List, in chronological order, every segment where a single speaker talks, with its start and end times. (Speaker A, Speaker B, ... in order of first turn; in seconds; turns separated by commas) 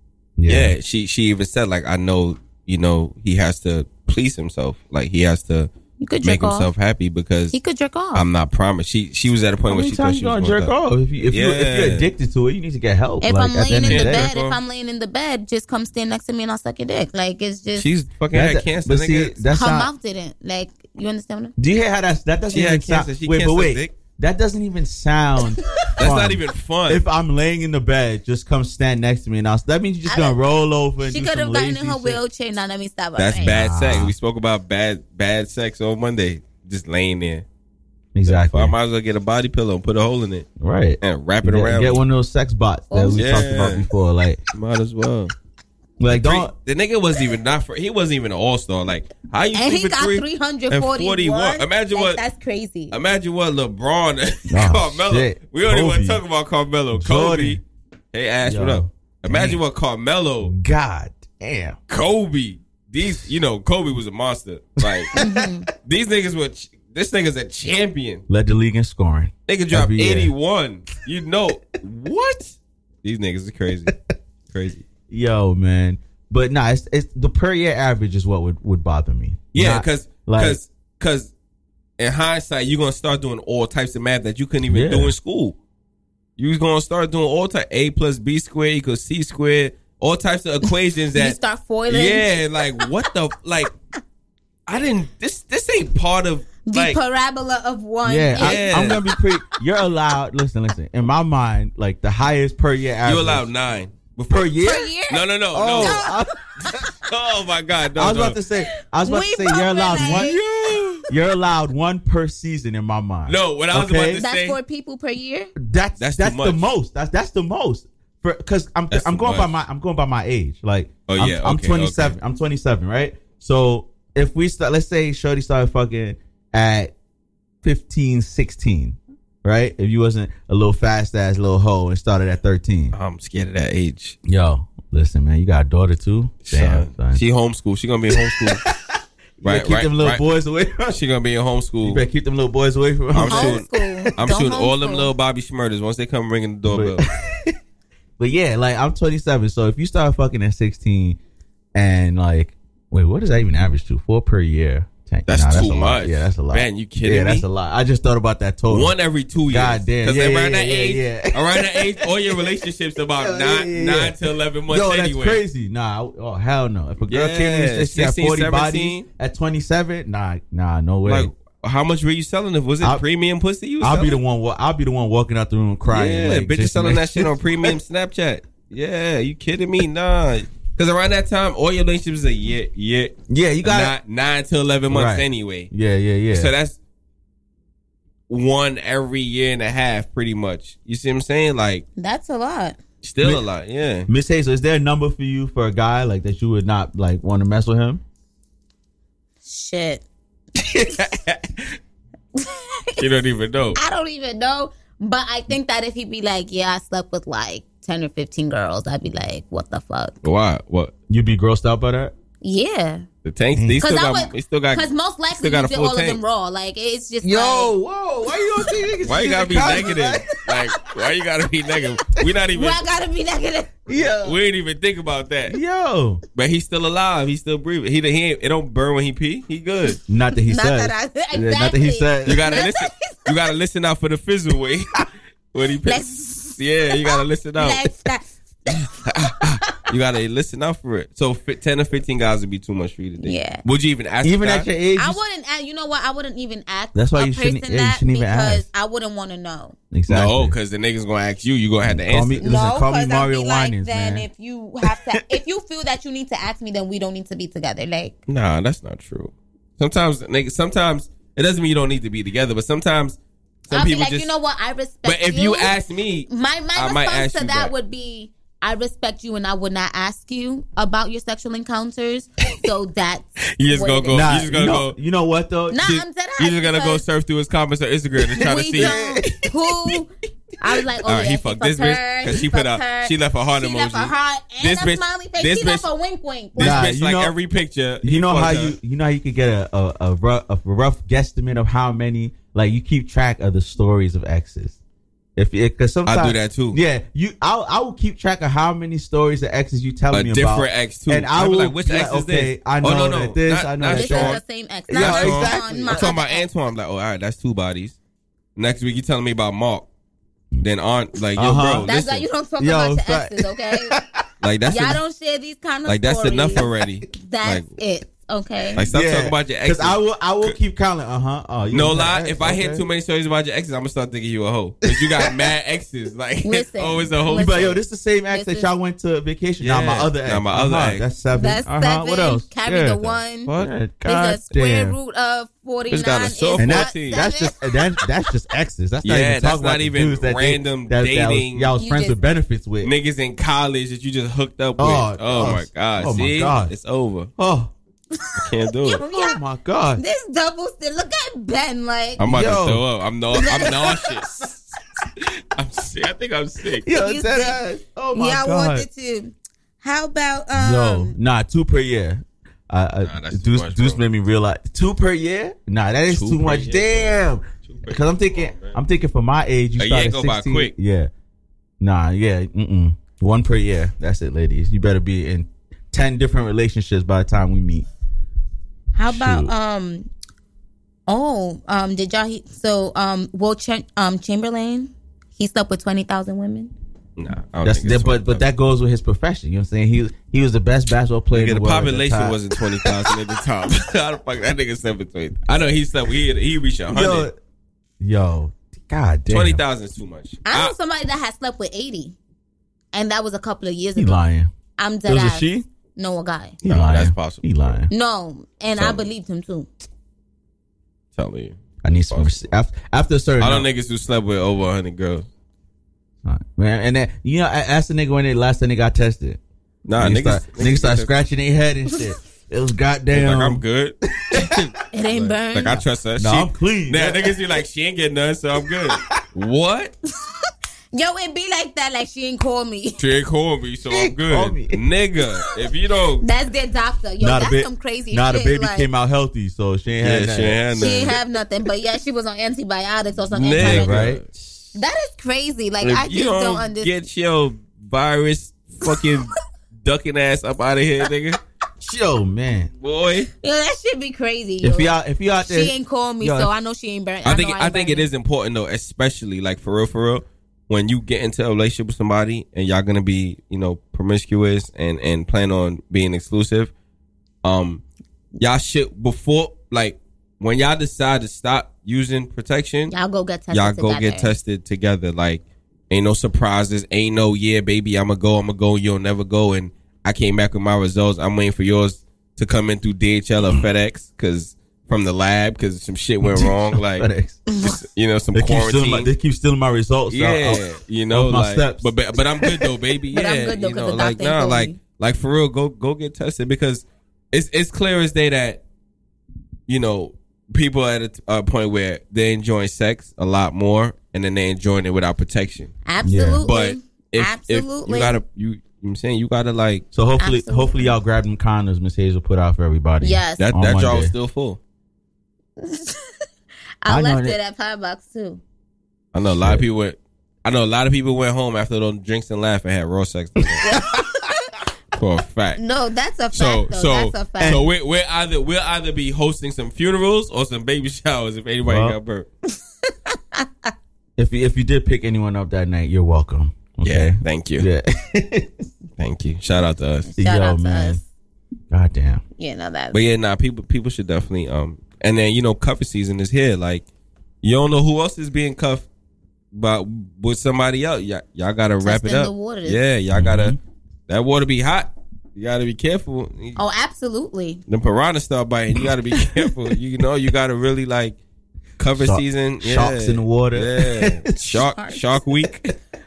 Speaker A: 0.4-0.7, Speaker B: 0.5-5.7, Speaker C: 6.0-6.7, Speaker B: 6.2-7.5, Speaker C: 7.5-8.3, Speaker B: 8.1-10.7, Speaker A: 9.7-14.3, Speaker B: 11.3-12.1, Speaker C: 13.2-17.9, Speaker B: 13.7-14.6, Speaker B: 17.8-19.4, Speaker A: 18.3-19.9, Speaker C: 19.5-21.5, Speaker A: 21.6-32.2, Speaker B: 22.5-23.9, Speaker B: 26.0-27.0, Speaker C: 30.1-30.4, Speaker C: 31.0-33.6, Speaker B: 33.2-37.5, Speaker A: 33.4-34.1, Speaker A: 38.1-38.7, Speaker B: 38.3-40.5, Speaker A: 40.6-44.4, Speaker B: 41.0-42.0, Speaker C: 42.9-43.5, Speaker B: 43.1-43.9, Speaker B: 44.5-45.3, Speaker A: 46.0-46.5, Speaker B: 46.0-52.2, Speaker C: 49.5-53.0, Speaker B: 52.9-57.6, Speaker A: 54.5-56.2, Speaker A: 56.9-57.6, Speaker B: 58.1-60.5, Speaker A: 58.4-59.6, Speaker A: 60.4-61.8, Speaker B: 61.9-65.1, Speaker A: 64.8-65.4, Speaker C: 65.2-65.7, Speaker B: 65.8-68.2, Speaker A: 68.3-70.3, Speaker B: 69.5-74.0, Speaker B: 74.5-74.9, Speaker A: 75.1-80.6, Speaker B: 79.5-81.3, Speaker B: 82.0-85.6, Speaker A: 84.7-85.2, Speaker B: 86.4-91.4, Speaker C: 90.7-92.9, Speaker B: 91.9-93.7, Speaker B: 94.7-97.0, Speaker C: 96.7-99.2, Speaker A: 98.0-103.5, Speaker B: 98.4-99.0, Speaker B: 103.0-104.5, Speaker A: 104.3-104.9, Speaker C: 104.6-106.2, Speaker B: 105.1-106.0, Speaker A: 105.5-106.9, Speaker B: 107.1-108.4, Speaker A: 108.0-110.4, Speaker C: 109.0-110.4, Speaker B: 110.1-111.0, Speaker A: 111.1-114.2, Speaker B: 113.3-114.6, Speaker C: 114.2-115.5, Speaker A: 115.6-126.9, Speaker B: 116.0-116.7, Speaker B: 118.9-119.5, Speaker B: 121.1-122.2, Speaker A: 127.6-132.9, Speaker B: 132.9-134.2, Speaker A: 134.3-137.2, Speaker B: 136.5-138.7, Speaker A: 139.4-141.0, Speaker B: 139.4-140.2, Speaker B: 140.9-142.0, Speaker A: 141.8-143.6, Speaker B: 143.1-147.0, Speaker C: 143.3-145.1, Speaker A: 146.7-147.6, Speaker A: 148.2-151.2, Speaker A: 151.8-158.9, Speaker B: 155.3-157.4, Speaker B: 158.7-165.4, Speaker A: 159.5-162.5, Speaker A: 163.2-164.2, Speaker A: 164.7-171.3, Speaker B: 167.1-169.1, Speaker B: 171.1-174.2, Speaker A: 173.8-177.7, Speaker B: 175.9-185.7, Speaker A: 183.3-184.0, Speaker A: 184.9-186.5, Speaker B: 186.3-186.8, Speaker B: 188.3-191.8, Speaker C: 192.0-192.8, Speaker B: 193.0-194.1, Speaker A: 194.1-198.0, Speaker C: 199.4-200.0, Speaker B: 200.8-201.8, Speaker C: 202.4-203.0, Speaker B: 203.0-203.8, Speaker C: 203.8-210.2, Speaker B: 210.2-210.9, Speaker A: 211.1-212.1, Speaker C: 212.4-213.1, Speaker B: 213.2-216.2, Speaker A: 213.6-213.8, Speaker C: 213.8-217.7, Speaker A: 217.2-220.2, Speaker B: 219.1-222.8, Speaker C: 222.6-223.9, Speaker A: 223.9-224.4, Speaker B: 224.1-225.6, Speaker A: 225.5-226.2, Speaker B: 226.3-230.0, Speaker A: 230.1-232.5, Speaker C: 230.4-233.2, Speaker B: 232.2-237.9, Speaker C: 235.9-239.8, Speaker B: 239.1-244.7, Speaker C: 243.2-243.6, Speaker A: 244.2-245.2, Speaker C: 245.0-249.8, Speaker A: 246.9-248.7, Speaker A: 249.9-250.6, Speaker B: 250.1-252.5, Speaker A: 251.8-254.3, Speaker C: 252.4-258.1, Speaker B: 258.3-264.3, Speaker C: 263.7-265.7, Speaker B: 265.1-267.7, Speaker C: 266.3-274.4, Speaker B: 273.6-275.0, Speaker A: 274.1-276.0, Speaker C: 275.7-277.0, Speaker B: 275.8-279.0, Speaker C: 278.4-280.1, Speaker A: 278.8-279.6, Speaker C: 280.6-286.9, Speaker B: 281.1-285.9, Speaker B: 286.6-288.8, Speaker A: 286.6-287.3, Speaker A: 288.0-294.8, Speaker A: 295.4-306.1, Speaker B: 296.1-296.8, Speaker B: 300.1-308.0, Speaker C: 303.9-306.5, Speaker B: 308.6-309.9, Speaker B: 310.6-312.2, Speaker A: 311.4-311.9, Speaker C: 311.8-313.9, Speaker A: 312.6-314.2, Speaker B: 314.4-315.0, Speaker C: 314.7-318.9, Speaker B: 315.9-317.7, Speaker B: 318.8-320.6, Speaker A: 318.8-322.8, Speaker B: 321.7-327.8, Speaker C: 326.4-327.8, Speaker A: 327.3-335.0, Speaker C: 328.3-328.7, Speaker B: 329.6-331.0, Speaker C: 331.3-333.5, Speaker B: 333.5-333.7, Speaker C: 334.1-337.6, Speaker B: 335.9-337.2, Speaker A: 336.6-342.9, Speaker B: 339.0-341.8, Speaker C: 341.8-342.2, Speaker B: 342.8-347.3, Speaker A: 344.8-346.7, Speaker A: 347.4-347.7, Speaker C: 348.2-349.4, Speaker B: 348.4-349.0, Speaker A: 349.0-350.0, Speaker C: 350.0-352.2, Speaker B: 352.2-354.6, Speaker A: 352.2-352.8, Speaker C: 353.4-353.7, Speaker B: 355.6-356.9, Speaker A: 356.8-358.9, Speaker C: 356.9-357.6, Speaker C: 358.1-361.1, Speaker A: 360.6-371.1, Speaker B: 363.0-364.0, Speaker B: 366.1-368.8, Speaker B: 369.8-370.7, Speaker A: 371.8-377.9, Speaker C: 378.9-380.1, Speaker A: 379.0-379.5, Speaker C: 381.1-386.7, Speaker B: 387.2-388.4, Speaker A: 387.6-393.2, Speaker B: 391.3-397.3, Speaker A: 396.9-397.4, Speaker A: 398.0-399.6, Speaker B: 399.3-400.7, Speaker C: 400.5-402.2, Speaker C: 402.9-404.2, Speaker A: 404.0-404.5, Speaker C: 404.8-406.6, Speaker A: 405.1-405.7, Speaker A: 406.6-407.9, Speaker B: 406.6-407.8, Speaker C: 407.9-409.7, Speaker B: 408.8-409.0, Speaker B: 411.1-412.5, Speaker A: 411.8-413.7, Speaker B: 413.4-415.3, Speaker A: 416.2-419.4, Speaker B: 419.9-421.1, Speaker A: 420.0-423.6, Speaker B: 423.1-429.9, Speaker C: 424.9-425.8, Speaker A: 426.2-427.4, Speaker C: 430.9-433.0, Speaker B: 433.0-436.3, Speaker A: 433.9-434.8, Speaker C: 436.2-438.9, Speaker A: 437.2-440.6, Speaker B: 440.0-441.2, Speaker C: 440.8-444.0, Speaker B: 443.3-444.3, Speaker A: 443.6-444.3, Speaker C: 444.8-447.1, Speaker B: 445.8-451.4, Speaker A: 451.8-452.7, Speaker B: 452.8-453.3, Speaker C: 453.4-458.1, Speaker A: 454.6-456.5, Speaker B: 457.2-466.7, Speaker B: 467.4-467.8, Speaker B: 468.4-472.9, Speaker C: 472.9-474.4, Speaker B: 473.5-487.1, Speaker A: 486.2-487.4, Speaker B: 487.7-489.1, Speaker A: 488.3-492.7, Speaker B: 490.1-498.6, Speaker C: 493.1-494.8, Speaker B: 499.7-505.7, Speaker C: 505.9-508.2, Speaker A: 506.0-506.5, Speaker B: 506.4-509.9, Speaker A: 509.9-514.1, Speaker C: 510.2-510.9, Speaker C: 513.0-513.4, Speaker B: 513.4-514.6, Speaker C: 515.6-516.0, Speaker C: 516.8-518.4, Speaker A: 516.9-517.4, Speaker B: 519.1-523.7, Speaker A: 519.2-519.6, Speaker A: 523.6-524.0, Speaker C: 523.6-524.2, Speaker B: 525.0-525.6, Speaker C: 525.6-527.6, Speaker B: 526.3-532.3, Speaker A: 527.4-527.7, Speaker A: 531.6-532.0, Speaker C: 533.1-533.5, Speaker A: 534.2-538.7, Speaker B: 536.8-537.7, Speaker B: 539.0-540.1, Speaker C: 540.1-541.0, Speaker A: 540.2-541.0, Speaker A: 541.7-542.2, Speaker C: 542.4-543.0, Speaker B: 542.9-546.9, Speaker B: 547.4-548.9, Speaker B: 549.5-553.6, Speaker C: 551.8-552.8, Speaker A: 553.1-553.6, Speaker B: 554.1-556.6, Speaker C: 556.6-557.6, Speaker B: 557.7-561.2, Speaker B: 561.8-565.7, Speaker A: 562.0-564.3